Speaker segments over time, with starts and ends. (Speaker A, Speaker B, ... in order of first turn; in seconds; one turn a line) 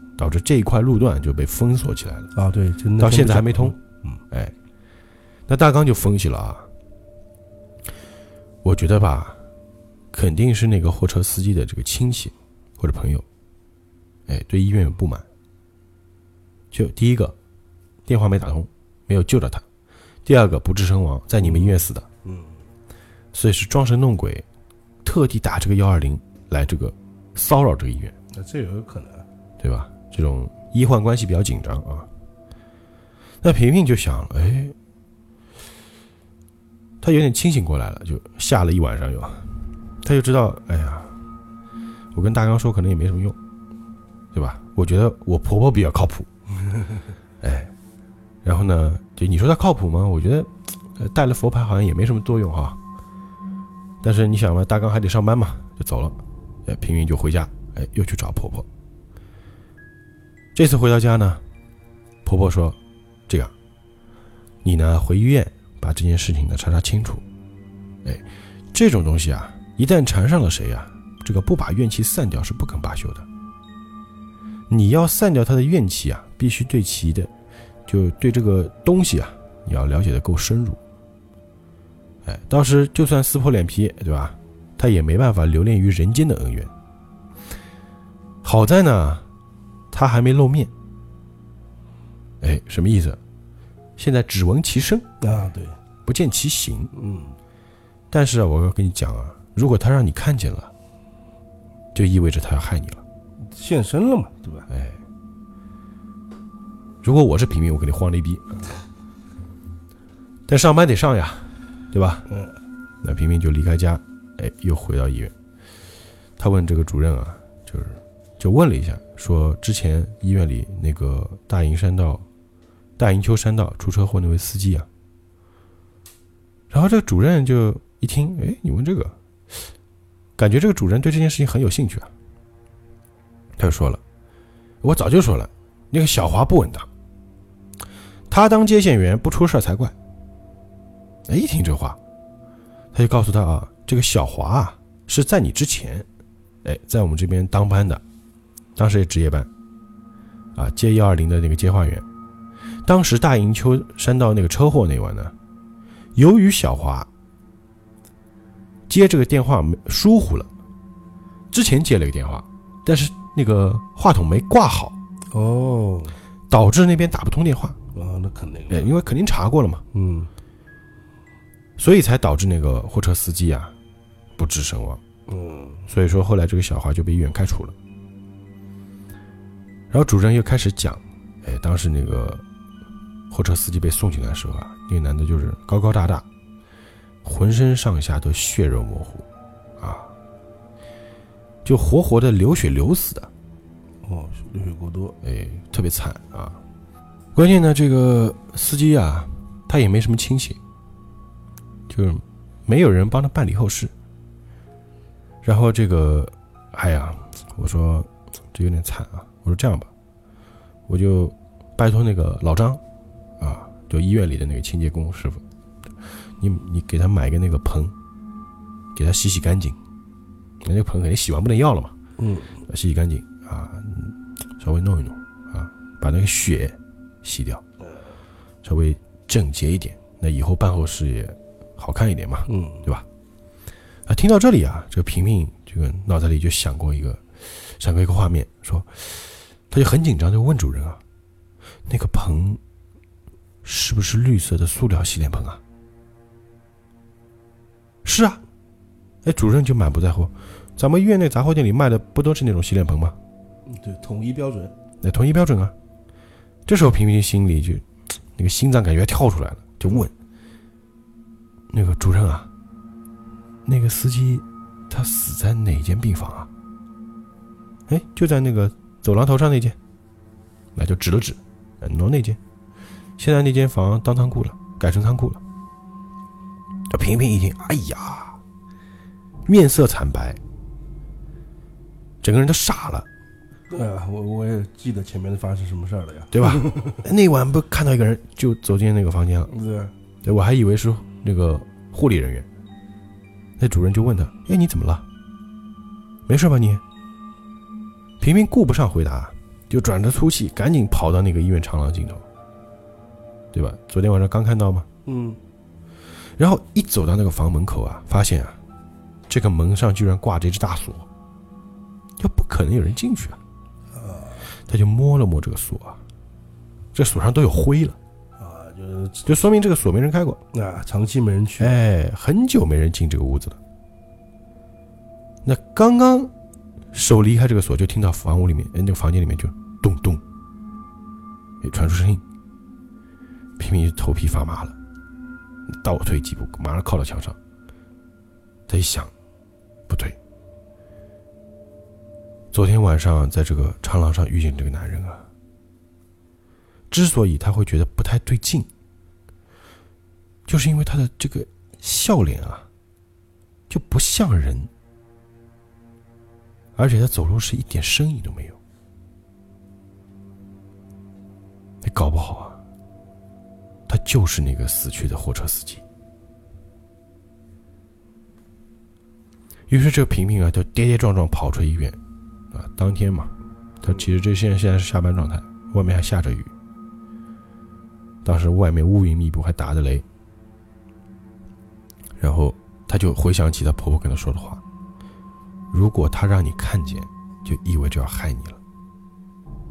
Speaker A: 0.2-2.3
Speaker B: 2.4-4.2
Speaker A: 3.0-3.8
Speaker A: 5.5-6.7
Speaker A: 8.6-9.4
Speaker A: 10.1-13.2
Speaker A: 14.3-15.3
Speaker A: 16.7-17.4
Speaker A: 18.1-19.6
Speaker A: 20.3-22.1
Speaker B: 21.4-22.6
Speaker A: 23.3-24.5
Speaker A: 25.0-28.1
Speaker B: 28.3-29.3
Speaker A: 29.6-32.1
Speaker A: 33.4-34.8
Speaker A: 37.0-41.1
Speaker A: 42.1-43.4
Speaker A: 44.3-46.3
Speaker A: 47.4-47.7
Speaker A: 48.4-52.8
Speaker A: 54.0-58.7
Speaker A: 60.5-61.4
Speaker A: 62.2-63.5
Speaker A: 64.6-67.2
Speaker A: 68.0-73.3
Speaker A: 74.7-77.3
Speaker A: 77.9-80.8
Speaker A: 82.2-86.7
Speaker A: 88.4-89.3
Speaker A: 89.9-90.7
Speaker A: 92.4-93.2
Speaker A: 94.0-95.1
Speaker B: 95.2-95.8
Speaker A: 96.0-96.9
Speaker B: 96.9-97.4
Speaker A: 98.1-100.7
Speaker A: 101.9-103.0
Speaker B: 103.5-104.7
Speaker A: 104.7-105.0
Speaker A: 107.0-108.7
Speaker A: 110.5-112.3
Speaker A: 113.0-115.3
Speaker A: 116.4-122.2
Speaker A: 123.0-124.9
Speaker A: 126.7-129.2
Speaker A: 130.4-132.1
Speaker A: 133.6-134.0
Speaker A: 134.8-136.9
Speaker A: 138.3-139.9
Speaker A: 141.3-142.0
Speaker A: 142.9-146.1
Speaker A: 146.6-148.0
Speaker A: 148.8-149.5
Speaker A: 150.6-152.1
Speaker A: 152.8-155.3
Speaker A: 156.2-157.1
Speaker A: 158.9-160.5
Speaker A: 161.5-165.0
Speaker B: 165.3-166.2
Speaker A: 166.5-167.8
Speaker B: 167.9-168.9
Speaker A: 168.7-169.8
Speaker B: 169.9-170.3
Speaker A: 171.8-173.7
Speaker A: 174.4-175.0
Speaker B: 175.3-175.9
Speaker A: 175.9-177.8
Speaker A: 179.9-182.4
Speaker A: 183.3-186.3
Speaker A: 187.2-189.3
Speaker A: 189.8-190.1
Speaker A: 191.7-193.3
Speaker B: 194.0-195.2
Speaker A: 195.2-196.6
Speaker A: 197.3-200.6
Speaker A: 201.9-203.9
Speaker A: 205.4-209.9
Speaker A: 210.9-212.8
Speaker A: 213.4-215.4
Speaker A: 216.4-217.9
Speaker A: 218.9-219.8
Speaker A: 220.6-221.9
Speaker B: 222.2-222.6
Speaker A: 222.7-227.6
Speaker A: 228.6-233.1
Speaker B: 232.5-232.9
Speaker A: 234.1-241.0
Speaker A: 241.9-242.6
Speaker A: 243.6-245.6
Speaker A: 248.0-248.4
Speaker A: 249.2-253.2
Speaker B: 253.7-254.7
Speaker A: 255.0-255.8
Speaker A: 256.7-257.9
Speaker A: 258.4-260.1
Speaker A: 261.7-262.5
Speaker A: 263.7-266.5
Speaker A: 267.9-269.8
Speaker A: 270.8-272.4
Speaker A: 273.2-275.4
Speaker A: 276.9-278.4
Speaker A: 279.5-280.4
Speaker A: 282.2-283.1
Speaker B: 283.7-287.0
Speaker A: 286.3-289.5
Speaker B: 289.5-289.9
Speaker A: 290.2-292.5
Speaker A: 293.6-295.1
Speaker A: 296.3-296.8
Speaker A: 298.2-302.2
Speaker A: 303.5-304.9
Speaker B: 305.1-305.4
Speaker A: 306.4-308.6
Speaker A: 309.3-311.1
Speaker A: 312.2-313.4
Speaker B: 313.9-314.5
Speaker A: 314.7-316.0
Speaker A: 316.9-318.0
Speaker B: 318.4-319.3
Speaker A: 319.3-320.4
Speaker B: 320.5-321.8
Speaker A: 321.6-323.6
Speaker A: 325.4-326.3
Speaker A: 326.9-330.2
Speaker A: 331.6-332.2
Speaker A: 333.6-334.8
Speaker A: 335.8-337.4
Speaker A: 338.7-339.1
Speaker A: 339.9-340.2
Speaker A: 342.5-345.3
Speaker A: 346.9-348.7
Speaker A: 350.5-352.7
Speaker A: 353.7-354.7
Speaker A: 356.8-358.6
Speaker A: 361.8-362.6
Speaker A: 363.9-365.8
Speaker A: 369.7-372.0
Speaker A: 372.5-376.5
Speaker A: 378.2-380.1
Speaker A: 382.2-384.6
Speaker A: 385.7-388.6